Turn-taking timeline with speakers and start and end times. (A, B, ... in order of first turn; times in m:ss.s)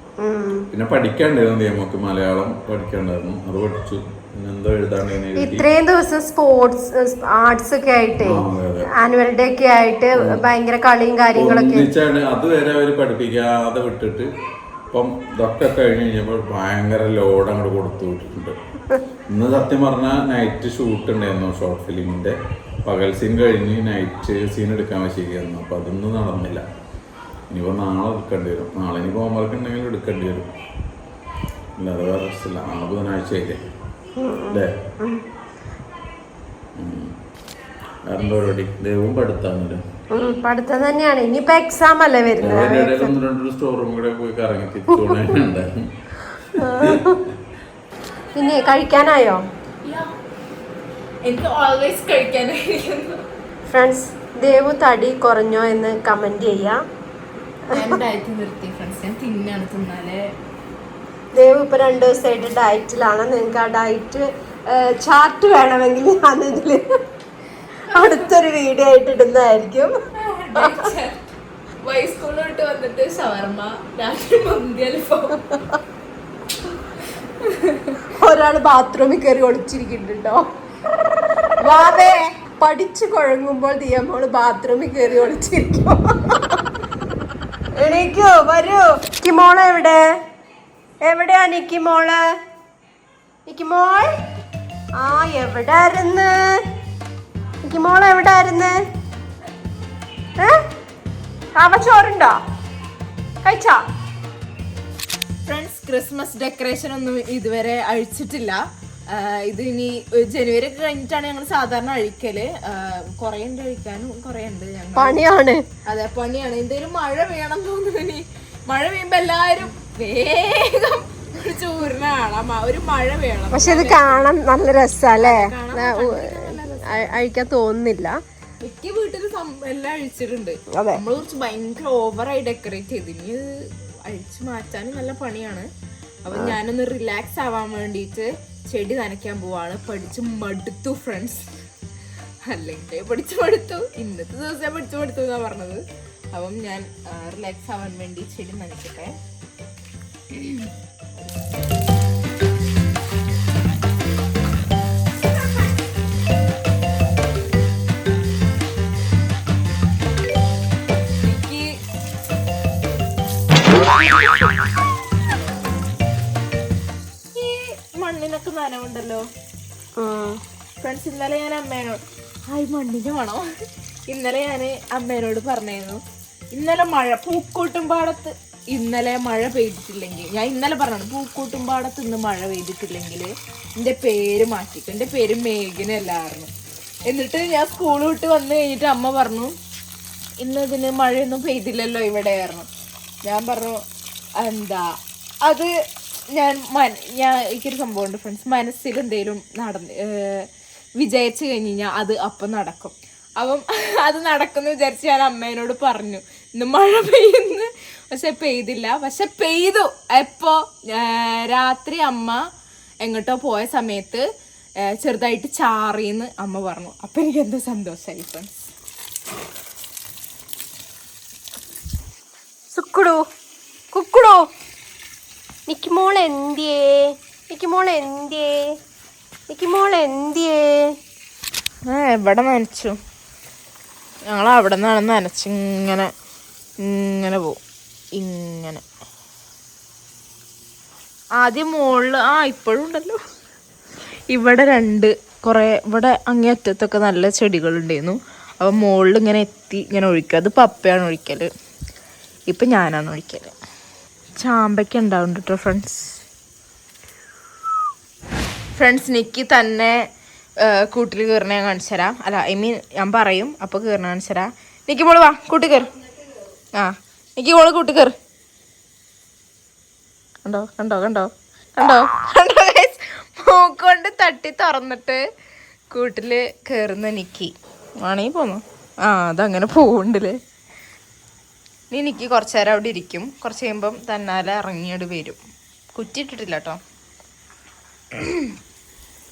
0:00.2-0:00.7 A
0:00.7-0:05.7 B
0:05.4-0:08.4 A
0:08.2-0:08.9 B
0:08.9-0:11.9 A
0:11.3-0:14.3 B
0:14.9-0:18.5 B
0:19.3-0:26.6 B
0:27.5-0:30.5 B
0:31.8-0:33.6 B
0:34.2-0:35.2 A
0:36.8-0:37.1 B
0:38.1-0:39.8 B
0:40.1-0:43.1 A
0:42.4-0:47.3 B
0:46.6-0:47.2 A
0:48.3-0:48.9 C
0:48.3-0:49.4 A
0:49.8-0:50.1 C
0:51.2-0:53.2 C
0:53.7-0:56.8 A
0:57.7-1:00.2 C
1:01.3-1:06.8 A
1:07.9-1:08.3 C
1:07.9-1:09.9 A
1:10.2-1:11.3 C
1:10.6-1:10.8 A
1:11.8-1:15.4 C
1:15.5-1:15.8 A
1:17.4-1:18.0 C
1:18.1-1:20.4 A
1:21.6-1:26.6 A
1:27.8-1:30.0 A
1:31.0-1:32.2 A
1:33.5-1:34.1 A
1:35.0-1:36.6 A
1:37.6-1:38.8 A
1:41.6-1:42.4 A
1:43.4-1:43.8 A
1:45.5-1:55.2 C
1:55.0-1:55.6 A
1:55.9-2:04.3 C
2:03.5-2:08.2 A
2:05.2-2:07.2 C
2:08.6-2:13.5 C
2:10.7-2:11.0 A
2:14.0-2:15.7 C
2:16.2-2:21.4 C
2:16.3-2:16.6 A
2:22.5-2:29.2 C
2:30.3-2:31.4 C
2:41.2-2:41.7 C
2:43.7-2:44.6 C
2:47.3-2:49.2 C
2:50.0-2:50.4 A
2:50.8-2:53.4 C
2:54.1-2:56.0 C
2:56.5-3:06.5 C
3:07.1-3:09.5 C
3:10.4-3:12.7 C
3:13.2-3:13.8 C
3:14.4-3:14.8 C
3:15.4-3:15.7 C
3:16.3-3:20.5 C
3:21.0-3:32.4 C
3:33.0-3:34.2 C
3:35.0-3:38.7 C
3:42.7-3:43.2 A
3:43.9-3:44.5 A
3:45.7-3:48.6 A
3:49.5-3:50.6 A
3:51.9-3:53.0 C
3:54.3-3:56.1 C
3:56.8-3:57.6 C
3:58.2-3:58.8 C
4:01.4-4:03.2 C
4:04.3-4:11.5 C
4:12.5-4:13.5 C
4:14.4-4:16.2 C
4:18.8-4:19.9 C
4:20.6-4:25.9 C
4:26.8-4:28.1 C
4:30.4-4:35.2 C
4:35.9-4:40.3 C
4:41.9-4:45.4 C
4:45.9-4:46.8 C
4:48.2-4:48.5 C